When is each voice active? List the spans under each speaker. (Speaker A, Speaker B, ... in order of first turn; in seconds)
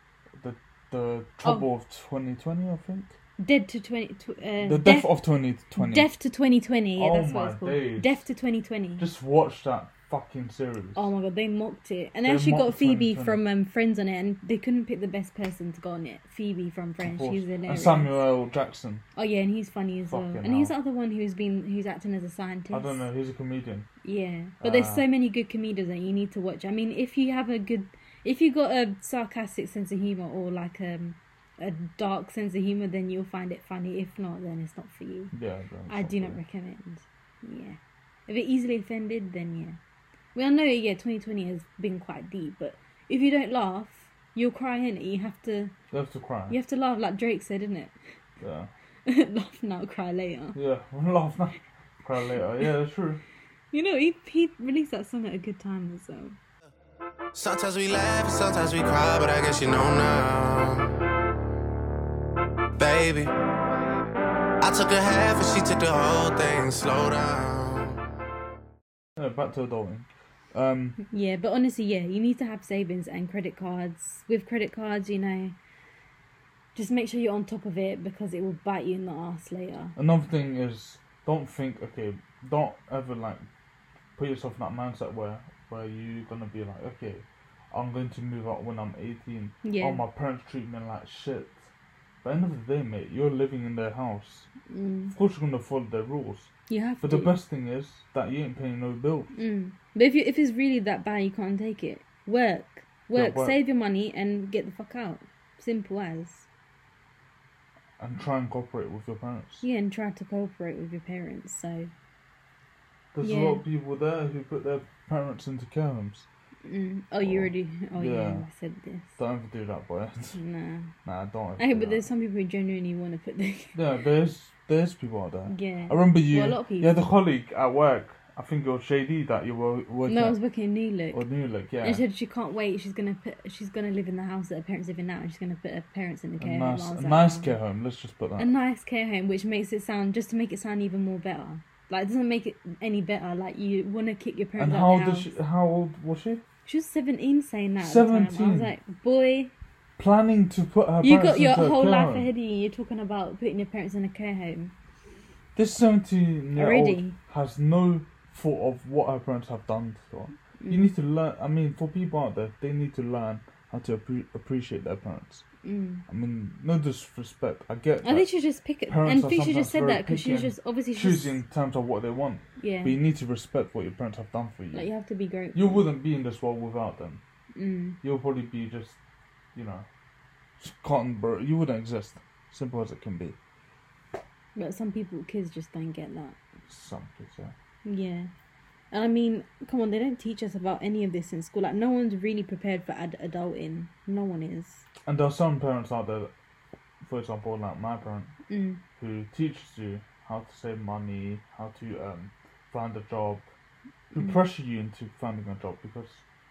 Speaker A: 0.4-3.2, 4.6-6.1, 7.0-8.2, 9.0-11.1, 12.2-13.4, 17.0-19.0, 20.1-20.7, 22.7-23.9, 24.6-25.1, 35.3-36.4, 45.9-46.5, 48.4-48.7, 50.5-53.2, 69.2-71.0, 80.0-83.5, 84.2-91.7, 92.2-94.5, 95.1-96.5, 97.0-99.3, 103.1-103.6, 108.0-109.6, 113.1-116.3, 117.2-118.5, 119.2-120.4, 121.0-122.0, 123.7-130.4, 131.1-132.0, 136.4-138.5, 144.6-146.4, 147.8-148.7, 150.0-152.3, 155.5-165.4, 166.1-168.3, 168.9-174.9, 175.5-177.2, 178.0-179.0, 179.5-179.9, 180.6-183.4, 186.7-187.5, 195.0-196.3, 197.0-198.3, 199.0-203.4, 204.1-206.2
Speaker B: 3.4-5.1, 5.8-9.1, 10.9-18.2, 19.1-23.0, 24.0-35.3, 35.9-39.8, 40.3-45.7, 46.5-48.0, 49.0-50.6, 53.7-56.4, 71.0-75.5, 76.7-80.0, 89.6-90.0, 94.7-95.1, 96.7-97.4, 99.3-106.5, 109.6-111.9, 113.2-113.6, 116.6-119.2, 120.3-120.9, 121.6-123.8, 125.5-127.0, 130.1-131.2, 131.8-137.6, 138.4-145.3, 146.7-149.5, 151.0-154.7, 156.5-157.2, 160.6-160.9, 165.6-166.0, 168.0-171.4, 172.6-173.0, 174.7-175.8, 177.5-178.0, 184.5-186.4, 187.8-188.3, 188.9-194.8, 198.5-198.8, 204.1-204.4
Speaker C: 57.3-61.0, 62.8-63.3, 64.6-68.0